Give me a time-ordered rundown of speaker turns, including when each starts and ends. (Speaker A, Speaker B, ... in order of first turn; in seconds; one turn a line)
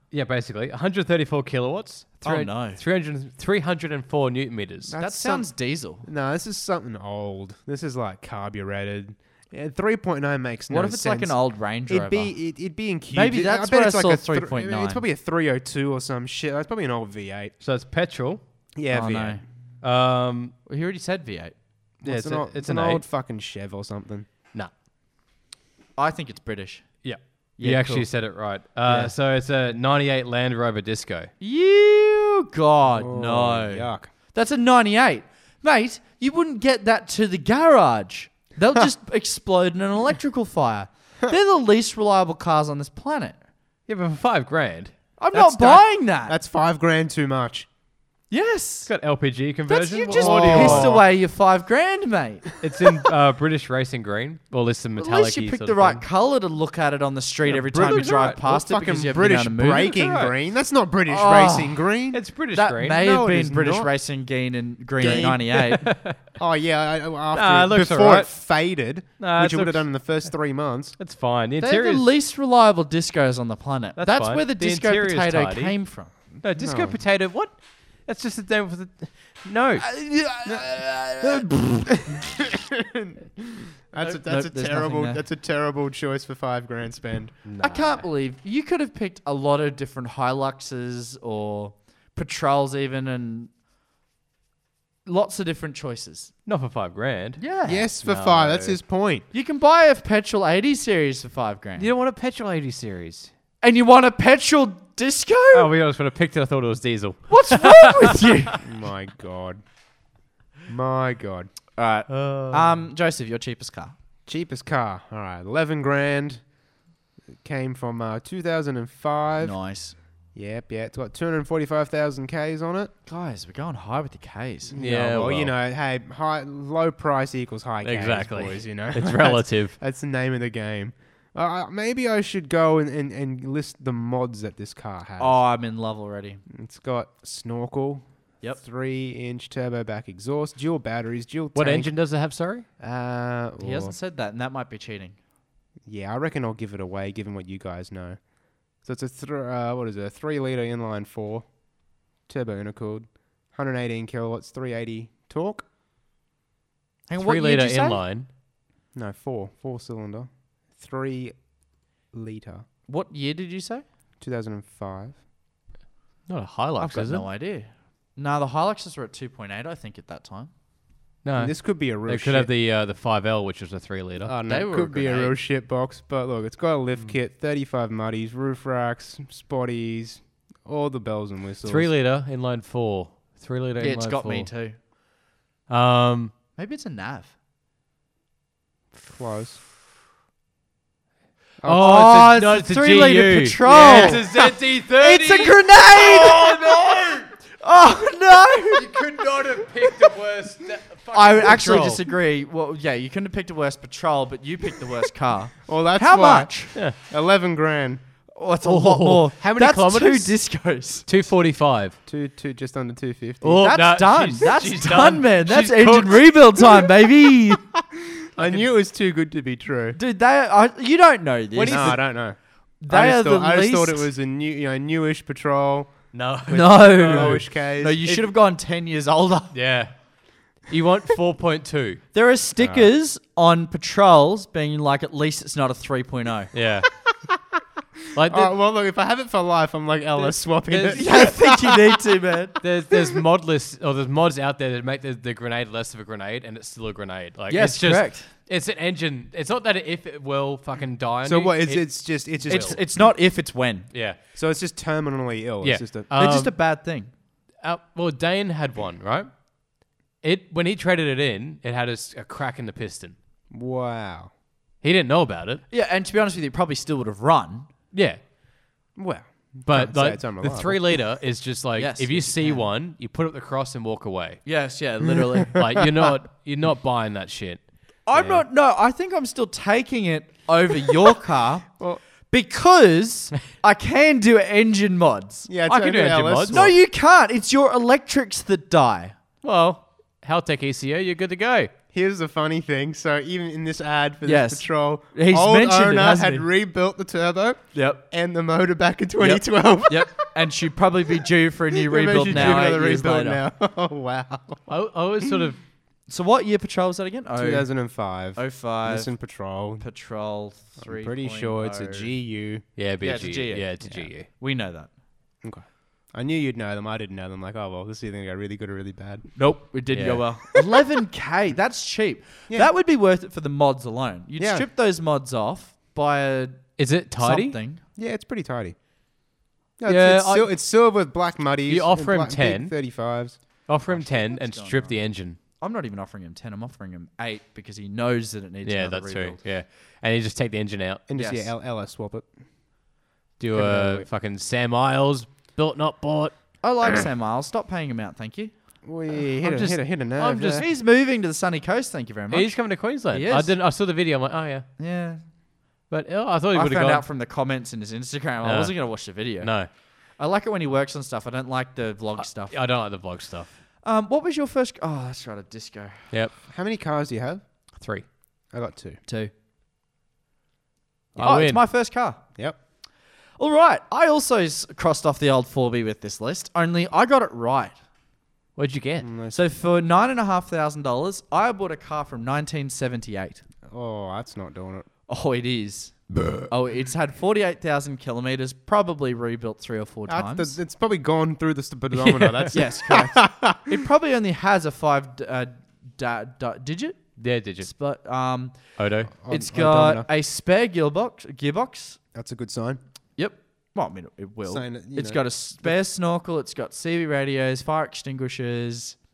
Speaker A: 0.1-4.9
Speaker B: 2.2-2.8
Speaker C: 4.9-17.5
Speaker B: 5.0-6.0
Speaker B: 10.7-12.3
Speaker B: 13.1-15.0
Speaker A: 17.6-18.4
Speaker C: 18.8-19.4
Speaker B: 18.9-19.4
Speaker A: 19.8-20.5
Speaker B: 20.6-21.5
Speaker C: 22.0-24.3
Speaker A: 22.0-23.0
Speaker B: 26.0-27.0
Speaker A: 27.0-31.3
Speaker B: 27.6-28.1
Speaker B: 28.9-29.1
Speaker B: 31.4-43.4
Speaker C: 32.9-34.1
Speaker A: 43.9-45.8
Speaker B: 45.2-46.3
Speaker C: 46.2-47.7
Speaker B: 48.3-48.9
Speaker A: 48.9-51.0
Speaker B: 49.7-52.5
Speaker C: 50.1-51.0
Speaker A: 52.6-56.0
Speaker B: 55.0-60.1
Speaker A: 57.5-58.4
Speaker C: 57.7-62.2
Speaker A: 60.0-60.3
Speaker B: 61.1-61.9
Speaker A: 62.1-63.0
Speaker B: 62.5-65.9
Speaker C: 62.9-63.9
Speaker C: 65.0-65.8
Speaker A: 65.0-66.3
Speaker C: 66.3-71.0
Speaker A: 67.3-68.3
Speaker A: 69.2-70.3
Speaker A: 71.0-72.1
Speaker B: 71.6-76.1
Speaker A: 74.0-75.8
Speaker A: 76.4-79.9
Speaker C: 76.5-77.0
Speaker B: 79.8-82.0
Speaker C: 82.0-87.8
Speaker B: 84.0-85.2
Speaker A: 87.5-87.9
Speaker B: 87.6-93.5
Speaker B: 95.0-96.3
Speaker A: 96.5-97.4
Speaker B: 97.4-97.9
Speaker C: 97.6-99.2
Speaker A: 98.0-98.8
Speaker B: 99.3-101.9
Speaker A: 101.8-103.3
Speaker B: 103.6-105.7
Speaker A: 105.5-108.4
Speaker B: 107.3-108.6
Speaker C: 108.6-109.6
Speaker C: 110.7-111.5
Speaker B: 111.8-113.9
Speaker A: 112.1-112.7
Speaker C: 114.2-116.4
Speaker C: 117.4-119.5
Speaker B: 119.4-120.0
Speaker C: 120.3-122.9
Speaker B: 123.0-124.7
Speaker C: 124.7-135.4
Speaker A: 124.8-125.5
Speaker A: 127.8-129.8
Speaker B: 135.2-136.4
Speaker C: 136.5-141.9
Speaker A: 141.5-142.7
Speaker C: 142.8-143.9
Speaker B: 143.6-145.2
Speaker C: 145.8-148.2
Speaker C: 148.8-151.5
Speaker C: 152.2-155.7
Speaker B: 157.1-158.0
Speaker A: 157.2-158.3
Speaker C: 158.9-161.3
Speaker C: 162.1-162.6
Speaker B: 162.9-163.8
Speaker C: 164.2-165.2
Speaker A: 166.3-167.2
Speaker B: 166.8-170.5
Speaker A: 171.2-174.3
Speaker C: 171.3-172.5
Speaker C: 174.2-181.9
Speaker B: 174.4-175.4
Speaker A: 181.6-184.5
Speaker B: 183.8-184.8
Speaker A: 185.7-186.3
Speaker B: 186.6-187.3
Speaker C: 188.9-189.6
Speaker C: 191.6-192.1
Speaker A: 191.6-197.3
Speaker B: 191.7-194.3
Speaker C: 193.6-194.5
Speaker B: 194.9-196.9
Speaker B: 197.5-198.9
Speaker A: 198.7-202.0
Speaker B: 201.1-206.7
Speaker C: 205.7-208.0
Speaker B: 208.3-211.1
Speaker A: 208.6-210.4
Speaker A: 211.1-212.0
Speaker C: 212.1-213.7
Speaker A: 213.4-216.8
Speaker B: 213.5-217.6
Speaker C: 217.9-220.0
Speaker B: 219.9-222.1
Speaker A: 221.6-222.0
Speaker C: 221.7-226.0
Speaker B: 222.8-224.1
Speaker A: 226.1-227.4
Speaker B: 226.5-229.5
Speaker C: 226.5-228.1
Speaker A: 229.5-229.9
Speaker A: 230.7-232.0
Speaker B: 232.1-236.5
Speaker C: 232.6-232.9
Speaker A: 236.5-236.9
Speaker A: 238.1-238.5
Speaker C: 238.2-242.0
Speaker A: 240.2-241.1
Speaker B: 240.9-242.6
Speaker A: 242.6-252.8
Speaker C: 242.9-243.2
Speaker B: 247.5-248.3
Speaker C: 251.2-252.8
Speaker B: 252.5-253.9
Speaker A: 253.9-254.2
Speaker C: 254.3-256.1
Speaker A: 255.6-256.5
Speaker B: 256.1-257.1
Speaker A: 257.6-259.3
Speaker A: 260.2-263.1
Speaker C: 263.5-264.3
Speaker A: 264.8-265.6
Speaker B: 265.7-267.7
Speaker A: 267.9-268.2
Speaker C: 268.9-270.8
Speaker A: 269.7-274.4
Speaker B: 271.8-272.6
Speaker B: 274.4-275.6
Speaker A: 275.5-277.6
Speaker B: 278.1-281.6
Speaker C: 278.1-278.4
Speaker C: 281.8-282.0
Speaker B: 282.3-285.5
Speaker C: 285.5-286.7
Speaker A: 285.7-286.6
Speaker B: 286.5-289.1
Speaker A: 289.4-291.7
Speaker C: 291.9-300.3
Speaker B: 294.2-296.5
Speaker B: 297.7-298.0
Speaker B: 299.2-303.4
Speaker C: 301.8-304.7
Speaker A: 302.3-302.6
Speaker A: 304.7-305.6
Speaker B: 306.1-307.7
Speaker C: 307.4-309.8
Speaker B: 308.3-309.1
Speaker B: 309.8-312.1
Speaker C: 310.8-312.6
Speaker A: 312.8-314.3
Speaker B: 313.0-314.9
Speaker C: 315.4-319.3
Speaker B: 319.4-327.8
Speaker A: 319.9-320.2
Speaker C: 324.4-324.7
Speaker A: 326.8-327.6
Speaker C: 327.9-328.8
Speaker C: 329.8-333.4
Speaker A: 329.8-330.5
Speaker A: 331.7-332.8
Speaker A: 333.6-335.4
Speaker B: 333.9-339.4
Speaker A: 338.6-341.0
Speaker C: 341.1-342.3
Speaker B: 341.1-341.5
Speaker A: 343.4-346.4
Speaker C: 343.5-344.1
Speaker B: 346.6-348.5
Speaker C: 348.8-350.6
Speaker A: 349.4-350.7
Speaker B: 350.4-353.5
Speaker A: 352.3-354.6
Speaker B: 354.8-355.2
Speaker A: 355.9-357.0
Speaker B: 356.5-359.5
Speaker A: 358.4-359.7
Speaker B: 360.1-362.6
Speaker A: 362.4-363.5
Speaker B: 363.8-366.1
Speaker C: 366.5-367.4
Speaker A: 367.8-368.0
Speaker C: 368.5-369.0
Speaker A: 371.1-371.6
Speaker B: 371.2-372.2
Speaker B: 373.4-377.7
Speaker A: 378.6-379.1
Speaker C: 379.0-379.4
Speaker B: 379.3-383.4
Speaker C: 383.7-384.9
Speaker B: 385.1-390.6
Speaker C: 390.1-393.7
Speaker A: 391.9-392.5
Speaker B: 392.5-402.0
Speaker A: 397.2-397.7
Speaker A: 398.8-399.1
Speaker C: 399.2-400.1
Speaker C: 402.1-402.8
Speaker B: 403.2-409.0
Speaker C: 404.5-405.7